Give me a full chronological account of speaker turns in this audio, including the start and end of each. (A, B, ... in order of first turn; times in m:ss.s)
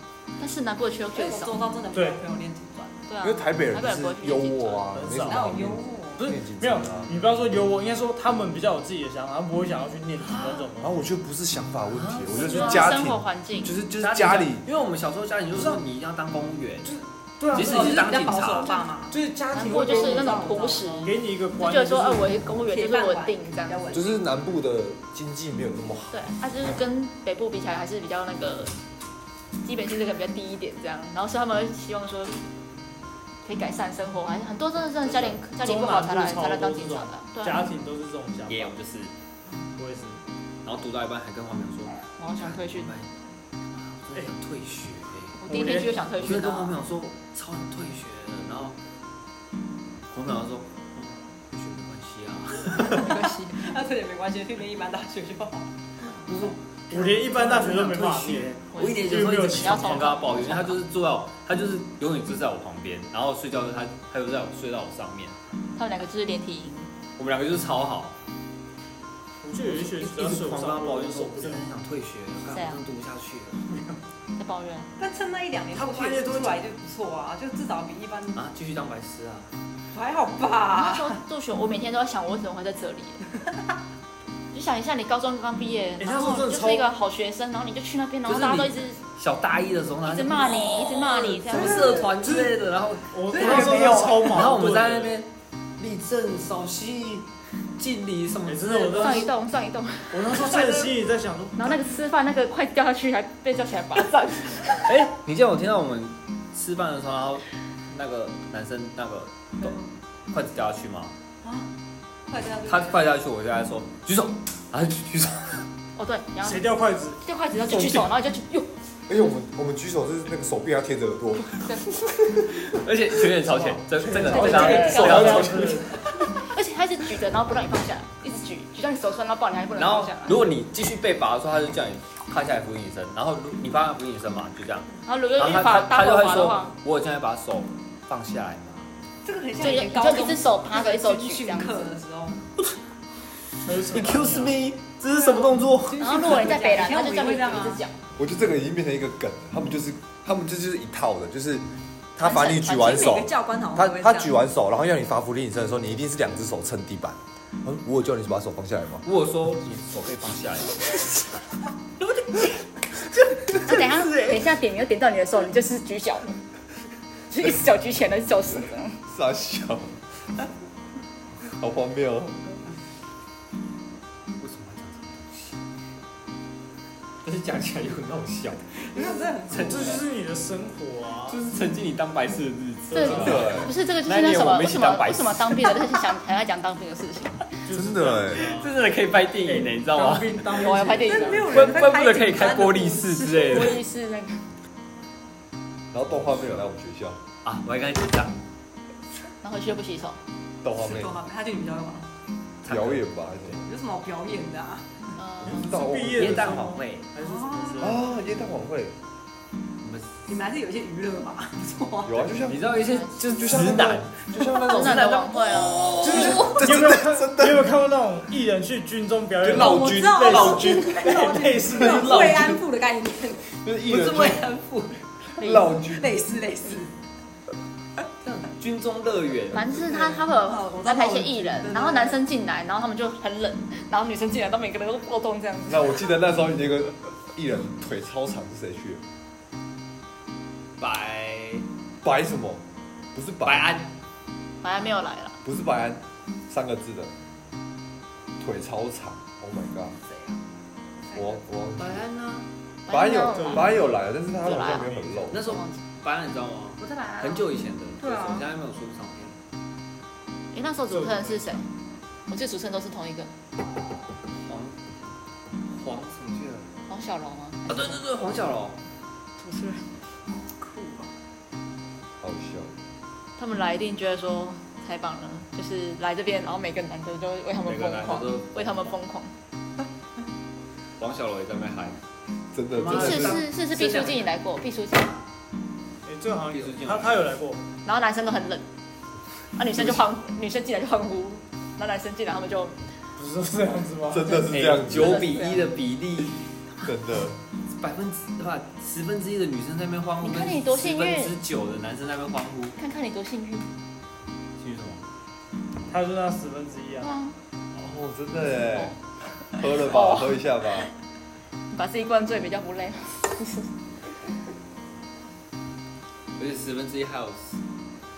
0:00.4-0:01.6 A
0:01.1-0:03.0 B
0:01.9-0:02.2 C
0:03.1-0:04.9 A
0:03.2-0:07.2 D
0:04.9-0:05.5 C
0:05.2-0:06.3 B
0:06.2-0:10.9 C
0:10.2-0:10.7 E
0:10.8-0:14.6 D
0:11.9-0:12.8 E
0:12.4-0:12.8 C
0:12.4-0:13.7 A
0:14.0-0:17.0 E
0:15.5-0:15.8 C
0:16.8-0:18.1 C
0:17.5-0:18.8 E
0:17.6-0:21.2 B
0:19.1-0:20.5 C
0:19.5-0:23.8 A
0:21.0-0:22.5 C
0:22.6-0:24.2 B
0:23.9-0:26.2 D
0:26.1-0:28.8 A
0:29.6-0:32.4 A
0:33.4-0:37.6 A
0:35.3-0:38.8 C
0:38.5-0:39.1 E
0:39.8-0:40.2 C
0:40.6-0:43.1 E
0:42.2-0:42.9 A
0:43.7-0:45.4 E
0:45.4-0:46.8 A
0:45.4-0:46.1 C
0:46.2-0:48.8 E
0:50.1-0:53.0 E
0:52.9-0:57.7 B
0:53.0-0:53.6 A
0:56.2-0:57.0 E
0:56.9-1:00.1 C
0:57.7-1:05.4 E
0:58.7-1:00.8 A
1:05.8-1:06.9 A
1:07.2-1:08.1 E
1:09.4-1:11.6 C
1:09.6-1:14.0 E
1:12.5-1:12.8 A
1:14.4-1:14.9 A
1:15.0-1:18.4 B
1:15.7-1:16.6 C
1:18.3-1:19.5 E
1:19.9-1:21.2 B
1:20.7-1:23.2 A
1:24.5-1:29.0 A
1:26.0-1:26.9 C
1:28.2-1:39.3 E
1:30.0-1:31.9 A
1:31.5-1:32.1 B
1:32.1-1:32.6 C
1:33.1-1:35.2 C
1:33.3-1:34.5 B
1:38.4-1:39.3 C
1:38.9-1:40.7 A
1:40.1-1:41.8 C
1:41.6-1:44.9 A
1:44.8-1:51.1 E
1:51.4-1:51.7 B
1:52.3-1:53.1 B
1:52.6-1:55.6 E
1:56.0-1:56.7 A
1:56.4-1:57.2 C
1:57.2-1:58.7 A
1:57.7-1:58.1 E
1:59.1-2:02.6 D
2:02.4-2:05.8 E
2:03.7-2:05.9 C
2:04.0-2:05.9 D
2:04.3-2:05.5 A
2:06.1-2:10.4 A
2:09.7-2:18.9 E
2:15.0-2:16.8 A
2:19.2-2:22.4 B
2:19.6-2:22.0 A
2:23.6-2:24.5 C
2:23.8-2:26.5 E
2:25.1-2:27.8 B
2:26.0-2:28.0 A
2:28.2-2:39.0 D
2:32.2-2:34.4 B
2:39.0-2:41.0 E
2:43.5-2:46.4 A
2:47.3-2:49.0 A
2:49.0-2:50.0 D
2:51.4-2:52.5 D
2:54.4-2:55.6 E
2:57.2-3:00.0 E
2:58.9-3:00.0 B
2:59.5-3:01.4 C
3:01.2-3:05.7 E
3:02.9-3:03.6 C
3:02.9-3:07.4 A
3:03.1-3:03.7 D
3:07.6-3:08.7 C
3:07.7-3:08.4 D
3:08.4-3:10.6 E
3:09.4-3:11.7 C
3:10.6-3:11.5 A
3:11.0-3:13.8 B
3:11.5-3:13.8 E
3:13.5-3:14.5 A
3:15.9-3:17.2 D
3:16.1-3:16.6 E
3:17.4-3:18.4 E
3:19.4-3:20.2 A
3:20.6-3:21.2 D
3:20.8-3:22.1 B
3:22.6-3:23.5 E
3:22.6-3:23.6 D
3:23.6-3:25.2 B
3:25.2-3:25.7 A
3:25.4-3:26.8 D
3:25.5-3:28.0 C
3:26.2-3:27.1 E
3:27.2-3:27.9 B
3:27.8-3:28.9 D
3:29.8-3:30.3 E
3:30.2-3:32.3 B
3:32.0-3:32.7 D
3:32.4-3:36.6 E
3:32.7-3:33.6 A
3:33.3-3:35.1 D
3:34.7-3:36.0 A
3:36.0-3:42.5 C
3:36.0-3:37.7 D
3:36.2-3:36.6 B
3:39.4-3:42.6 D
3:39.5-3:43.5 B
3:43.5-3:44.4 D
3:43.9-3:45.0 E
3:45.4-3:46.1 D
3:45.4-3:45.7 A
3:45.8-3:46.9 B
3:48.2-3:49.7 E
3:49.5-3:56.0 A
3:49.7-3:52.2 B
3:55.7-3:59.0 D
4:00.8-4:01.6 E
4:02.0-4:02.6 D
4:03.1-4:03.7 D
4:03.4-4:03.9 E
4:04.6-4:05.4 A
4:05.4-4:07.1 D
4:08.4-4:10.0 D
4:10.1-4:10.3 B
4:11.1-4:11.4 B
4:11.1-4:12.0 D
4:11.8-4:12.5 E
4:12.9-4:13.8 A
4:12.9-4:15.4 D
4:13.4-4:13.8 C
4:14.4-4:15.8 A
4:14.6-4:15.4 C
4:15.3-4:19.4 E
4:16.8-4:18.5 B
4:20.5-4:21.7 A
4:20.9-4:21.6 C
4:22.3-4:23.3 A
4:24.4-4:24.8 E
4:25.7-4:26.7 E
4:26.9-4:28.0 A
4:27.7-4:28.8 E
4:29.4-4:29.9 A
4:30.3-4:31.1 B
4:32.2-4:32.7 D
4:33.4-4:39.3 A
4:37.6-4:38.9 E
4:41.0-4:42.0 E
4:42.5-4:43.4 D
4:42.7-4:44.3 E
4:42.9-4:45.2 A
4:46.0-4:47.6 C
4:46.5-4:47.2 E
4:47.8-4:48.7 A
4:49.5-4:52.9 A
4:53.2-4:54.4 C
4:54.1-4:55.3 D
4:54.3-4:55.6 A
4:54.5-4:56.4 E
4:56.8-4:57.4 D
4:57.7-5:02.8 E
5:00.2-5:01.4 A
5:02.8-5:03.7 A
5:04.6-5:05.0 E
5:05.9-5:07.1 C
5:07.0-5:07.4 A
5:07.8-5:09.0 D
5:08.4-5:10.4 A
5:09.5-5:10.9 D
5:11.7-5:13.7 A
5:16.4-5:17.6 E